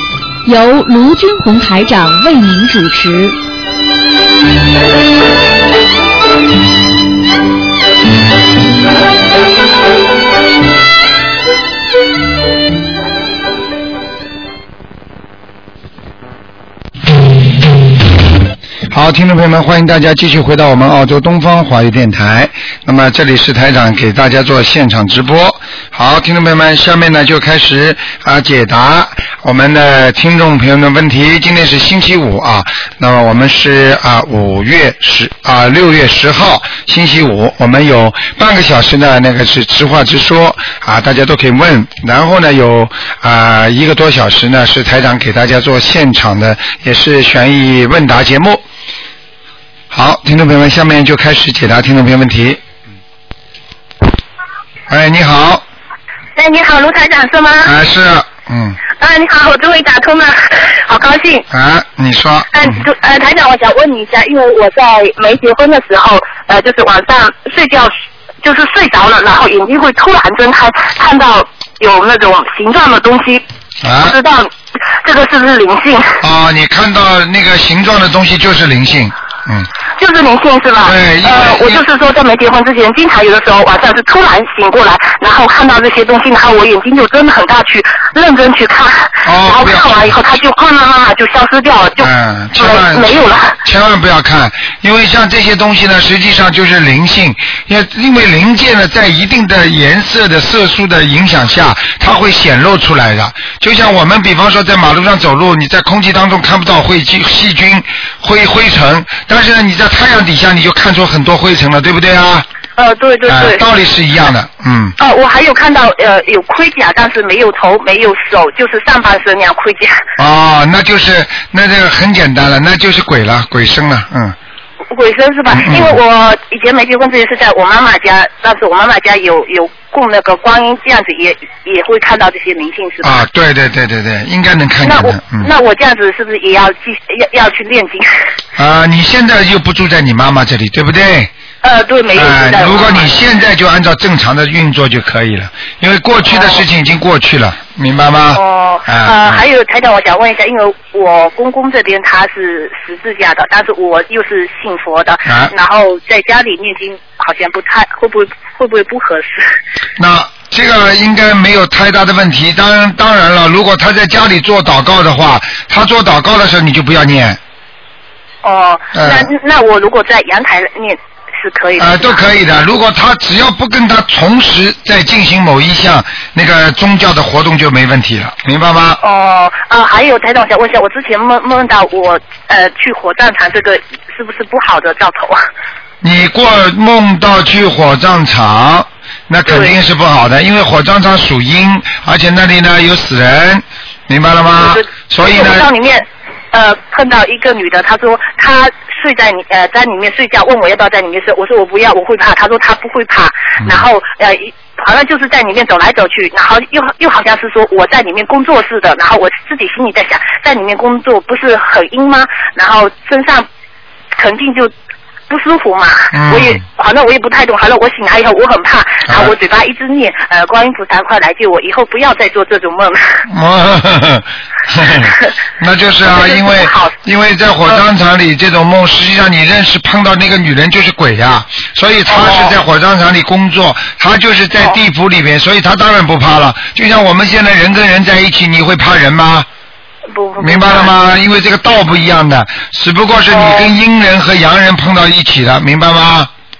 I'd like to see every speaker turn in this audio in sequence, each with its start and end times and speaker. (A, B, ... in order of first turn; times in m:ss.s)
0:00.4-0:03.4 A
0:18.9-0:48.6 B
0:49.9-0:52.6 B
0:54.9-0:55.6 B
0:56.4-0:57.7 C
0:57.6-0:58.8 B
0:59.0-1:01.4 C
1:01.5-1:02.7 B
1:02.5-1:13.4 C
1:13.8-1:14.2 B
1:14.0-1:16.2 C
1:16.2-1:19.7 B
1:20.0-1:33.6 C
1:20.8-1:21.8 B
1:29.2-1:30.1 B
1:32.0-1:52.4 B
1:52.8-1:53.6 C
1:53.3-1:54.9 B
1:55.0-2:00.0 C
2:00.2-2:04.4 B
2:04.9-2:13.2 C
2:05.5-2:06.0 B
2:13.0-2:15.5 B
2:14.8-2:18.1 C
2:18.6-2:21.3 B
2:21.6-2:23.2 C
2:22.1-2:29.4 B
2:26.3-2:26.6 C
2:28.3-2:39.5 C
2:35.3-2:35.5 B
2:40.0-2:47.4 B
2:48.4-2:52.2 C
2:48.9-2:49.3 B
2:51.8-2:59.0 B
2:59.0-3:05.4 C
3:06.0-3:15.7 B
3:09.4-3:09.7 C
3:14.6-3:33.5 C
3:34.2-3:34.7 C
3:35.3-3:43.2 C
3:36.1-3:36.6 B
3:39.1-3:39.3 B
3:43.3-3:59.5 B
3:44.9-3:45.3 C
3:46.0-3:46.9 C
3:52.1-3:52.6 C
4:00.1-4:00.9 C
4:00.4-4:06.3 B
4:03.3-4:03.7 C